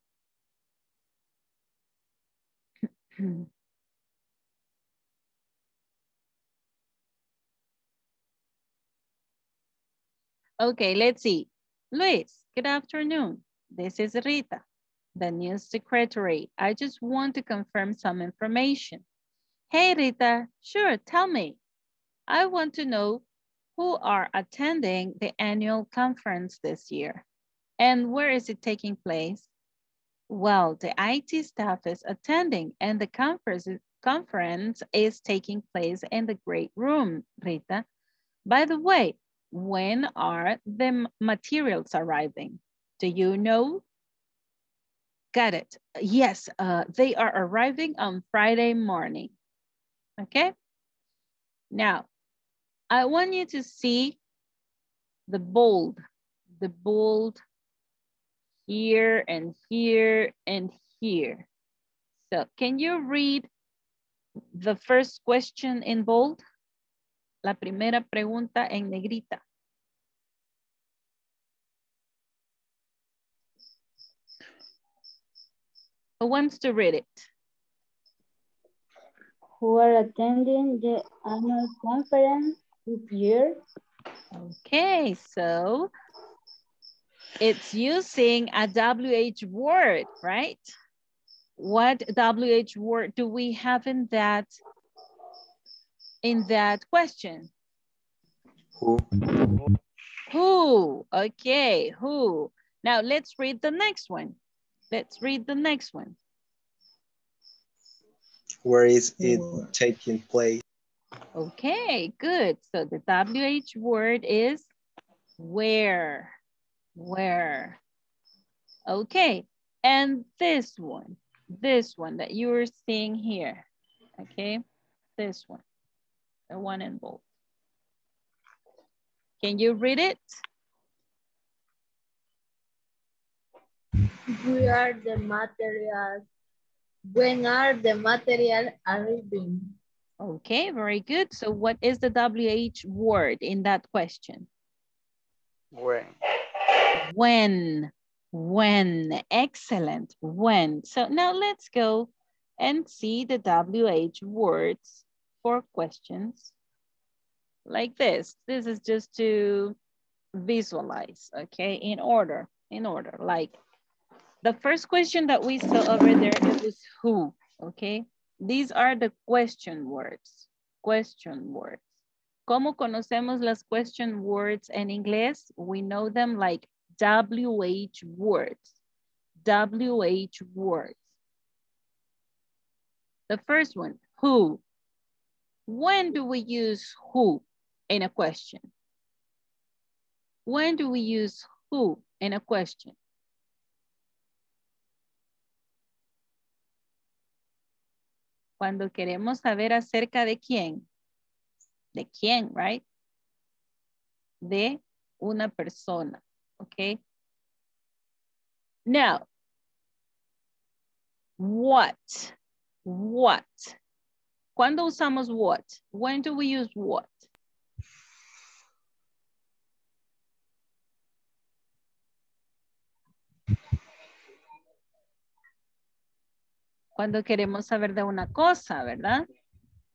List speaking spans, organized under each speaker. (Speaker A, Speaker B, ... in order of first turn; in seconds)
Speaker A: 3.1-3.5, 10.6-14.6, 15.2-19.0, 19.7-21.6, 22.3-23.2, 23.8-27.2, 27.8-29.5, 30.3-37.9, 38.5-43.8, 45.3-49.3, 50.2-50.5, 51.7-52.1, 52.9-54.2, 55.3-56.0, 56.6-57.4, 58.7-61.5, 62.3-63.5, 64.5-66.4, 67.4-69.4, 76.2-77.3, 84.3-85.9, 87.4-90.7, 91.6-94.5, 96.2-97.5, 100.3-104.4, 104.9-106.2, 111.3-114.7, 115.4-116.3, 117.0-117.8, 118.9-123.7, 124.2-124.6, 125.2-125.6, 126.5-127.2, 129.4-130.3, 140.2-144.5, 147.0-156.5, 157.7-159.8, 160.3-163.6, 164.4-171.8, 172.5-178.7, 179.4-181.0, 183.3-184.6, 185.7-188.7, 190.4-192.9, 198.6-200.8, 201.9-202.8, 204.4-207.0, 208.9-209.2, 211.4-213.8, 214.6-217.3, 227.0-229.2
Speaker B: 79.6-83.6
Speaker C: 98.8-99.0, 108.6-110.6
Speaker D: 134.4-136.2, 137.1-139.7